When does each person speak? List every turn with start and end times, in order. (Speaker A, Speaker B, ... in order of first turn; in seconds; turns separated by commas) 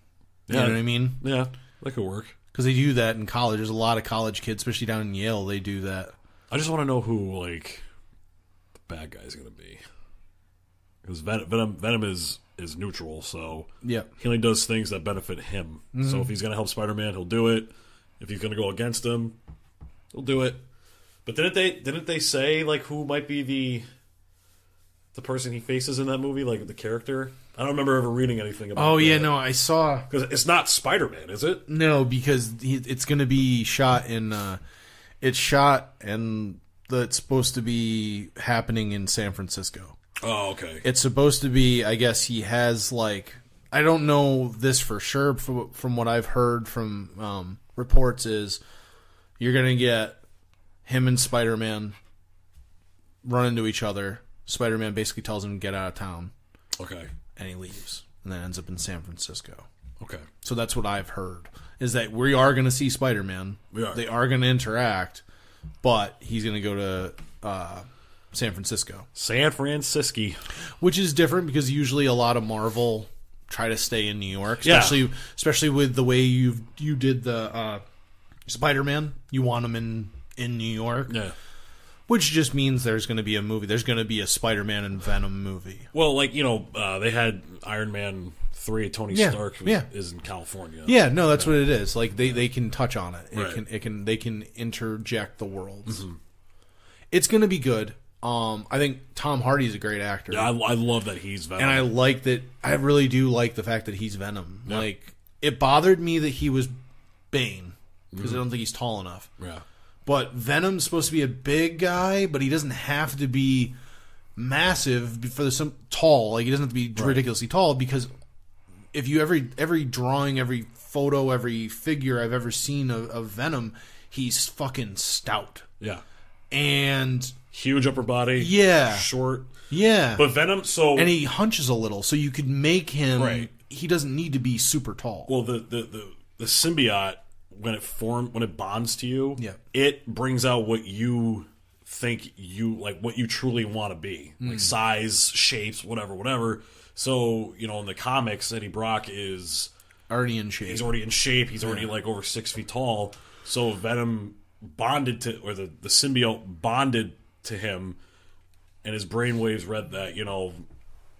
Speaker A: 0.5-2.4, Speaker B: 0.5-1.2, Speaker B: 2.5-6.2, Speaker A: 6.5-7.8, Speaker A: 8.9-9.8, Speaker A: 11.0-19.4, Speaker B: 13.8-14.1, Speaker B: 15.9-16.3, Speaker A: 20.1-20.6, Speaker A: 21.3-23.9, Speaker A: 25.1-29.3, Speaker B: 28.7-30.1, Speaker A: 30.1-31.6, Speaker B: 31.7-34.6, Speaker B: 35.2-40.0, Speaker A: 40.2-40.9, Speaker B: 40.8-48.6, Speaker B: 49.4-50.2, Speaker B: 50.9-52.0, Speaker B: 53.2-56.3, Speaker A: 56.8-57.1, Speaker B: 57.4-59.7, Speaker A: 60.0-60.3, Speaker B: 60.4-65.2, Speaker A: 63.7-64.0, Speaker B: 65.8-69.1, Speaker A: 69.2-70.4, Speaker B: 70.8-77.8, Speaker A: 74.6-75.0, Speaker B: 78.5-81.2, Speaker A: 81.1-81.3, Speaker B: 82.1-85.9, Speaker A: 85.9-91.7, Speaker B: 89.1-89.9, Speaker B: 90.9-96.0, Speaker A: 93.3-93.6, Speaker A: 95.9-96.2, Speaker B: 97.1-100.5, Speaker A: 100.3-101.9, Speaker B: 101.6-106.7, Speaker B: 107.3-109.3, Speaker A: 108.1-108.4, Speaker A: 109.4-109.6, Speaker B: 110.1-113.8, Speaker B: 114.4-118.1, Speaker A: 117.0-117.2, Speaker B: 118.9-125.7, Speaker B: 126.5-127.4, Speaker A: 127.5-129.6, Speaker B: 128.4-129.1, Speaker B: 129.7-130.3, Speaker A: 130.1-131.2, Speaker B: 130.9-135.3, Speaker A: 133.2-133.5, Speaker A: 135.3-149.7, Speaker B: 144.4-144.7, Speaker B: 150.1-150.9, Speaker A: 150.7-158.0, Speaker B: 151.6-151.9, Speaker A: 158.8-160.6